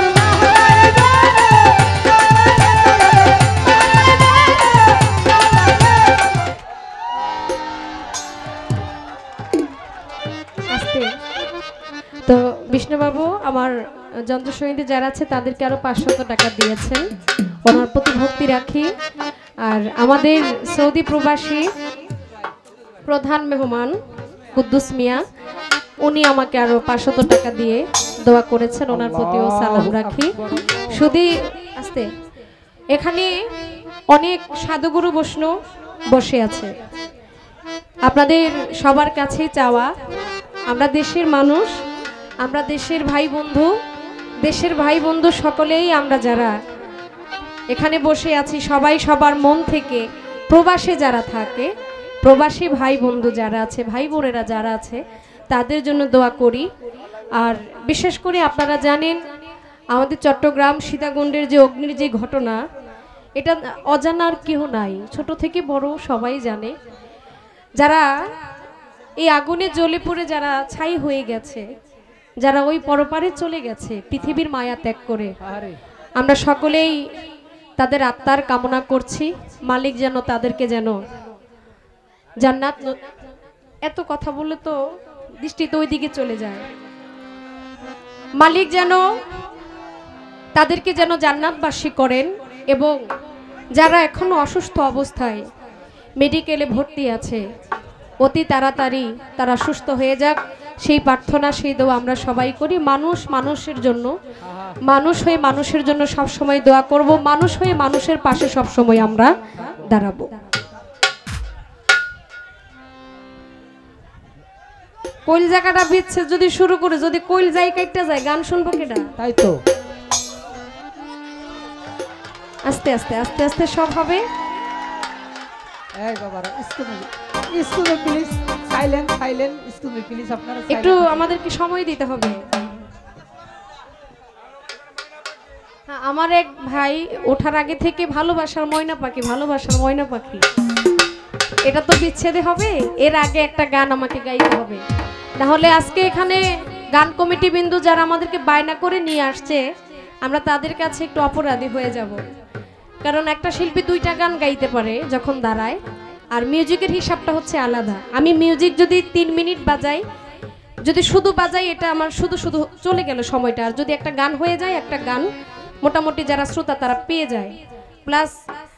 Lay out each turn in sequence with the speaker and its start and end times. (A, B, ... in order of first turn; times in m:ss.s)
0:00.1-0:01.0 A
0:10.7-0:11.1 B
0:12.3-0:17.1 B
0:17.6-0:18.9 B
0:19.6-0:21.7 B
0:23.1-0:24.0 B
0:24.6-0:25.2 B
0:26.0-0:32.1 B
0:28.9-0:31.0 A
0:32.9-0:33.5 B
0:34.1-0:35.5 B
0:36.1-0:36.7 B
0:38.0-0:39.9 B
0:40.7-0:41.8 B
0:42.4-0:43.7 B
0:44.4-0:46.5 B
0:47.7-0:51.7 B
0:52.2-0:56.7 B
0:57.4-0:59.2 B
0:59.9-1:02.6 B
1:03.4-1:06.7 B
1:07.8-1:08.1 B
1:09.2-1:11.6 B
1:12.4-1:15.3 B
1:15.4-1:15.8 A
1:16.2-1:17.0 B
1:17.8-1:21.0 B
1:22.4-1:23.1 B
1:23.9-1:24.8 B
1:25.4-1:26.7 B
1:28.4-1:29.0 B
1:30.6-1:33.0 B
1:33.8-1:35.4 B
1:36.2-1:37.4 B
1:38.2-1:44.1 B
1:44.9-1:50.4 B
1:55.3-1:59.1 B
1:59.2-1:59.6 A
2:02.7-2:04.2 B
2:06.0-2:11.2 A
2:10.7-2:12.4 B
2:15.9-2:20.4 B
2:21.6-2:24.8 B
2:25.4-2:29.6 B
2:30.2-2:32.2 B
2:33.0-2:35.8 B
2:36.3-2:40.0 B
2:40.8-2:45.3 B
2:45.8-2:47.6 B
2:48.1-2:48.4 B